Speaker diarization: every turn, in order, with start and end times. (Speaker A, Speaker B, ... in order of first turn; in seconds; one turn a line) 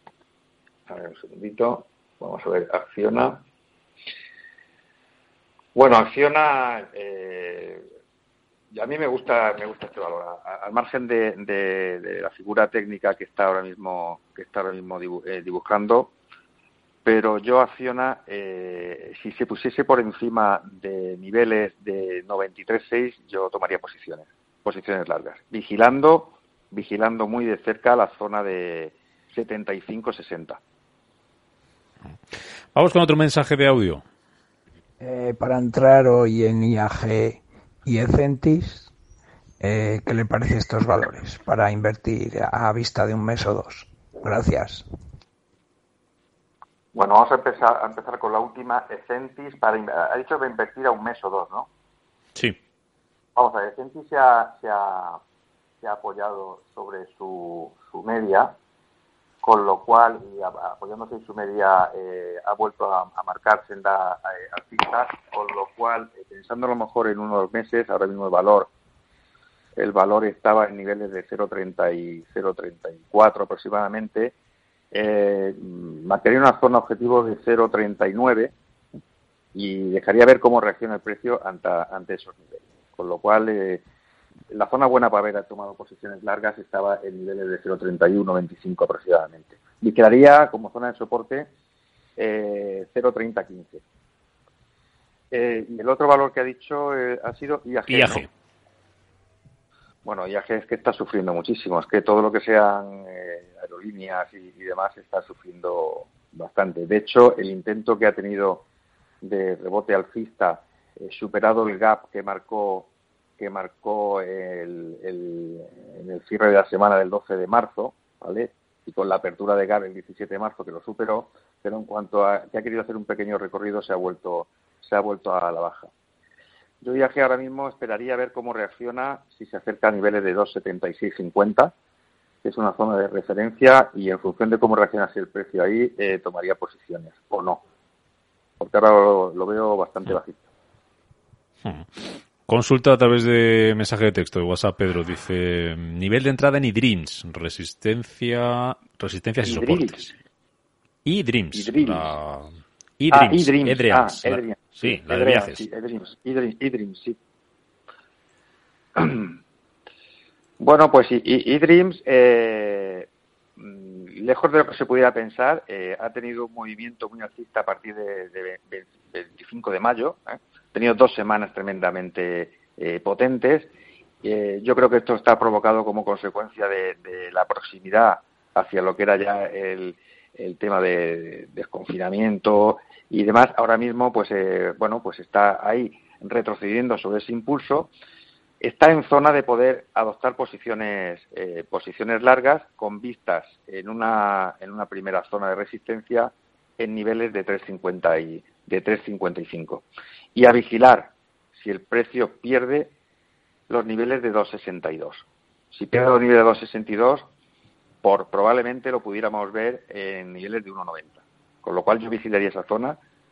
Speaker A: 0.9-3.4
Speaker A: 5.8-7.9
Speaker A: 8.7-16.1
Speaker A: 17.1-30.6
Speaker B: 32.8-34.0
Speaker C: 35.0-38.9
Speaker C: 39.6-44.9
Speaker A: 46.9-51.7
Speaker A: 53.4-55.2
Speaker A: 55.8-58.6
Speaker A: 59.4-68.7
Speaker A: 69.8-74.3
Speaker A: 74.9-78.5
Speaker A: 79.5-83.8
Speaker A: 84.5-91.5
Speaker A: 92.2-93.8
Speaker A: 95.3-98.3
Speaker B: 97.9-98.3
Speaker A: 100.0-108.7
Speaker A: 109.2-125.9
Speaker A: 126.8-131.7
Speaker A: 132.4-137.6
Speaker A: 138.6-140.5
Speaker B: 141.6-150.1
Speaker A: 149.4-150.1
Speaker B: 151.1-155.6
Speaker A: 151.5-152.1
Speaker A: 153.1-157.2
Speaker A: 159.0-159.4
Speaker A: 160.6-173.7
Speaker A: 174.2-187.9
Speaker A: 188.6-202.9
Speaker A: 203.7-207.3
Speaker A: 208.0-213.0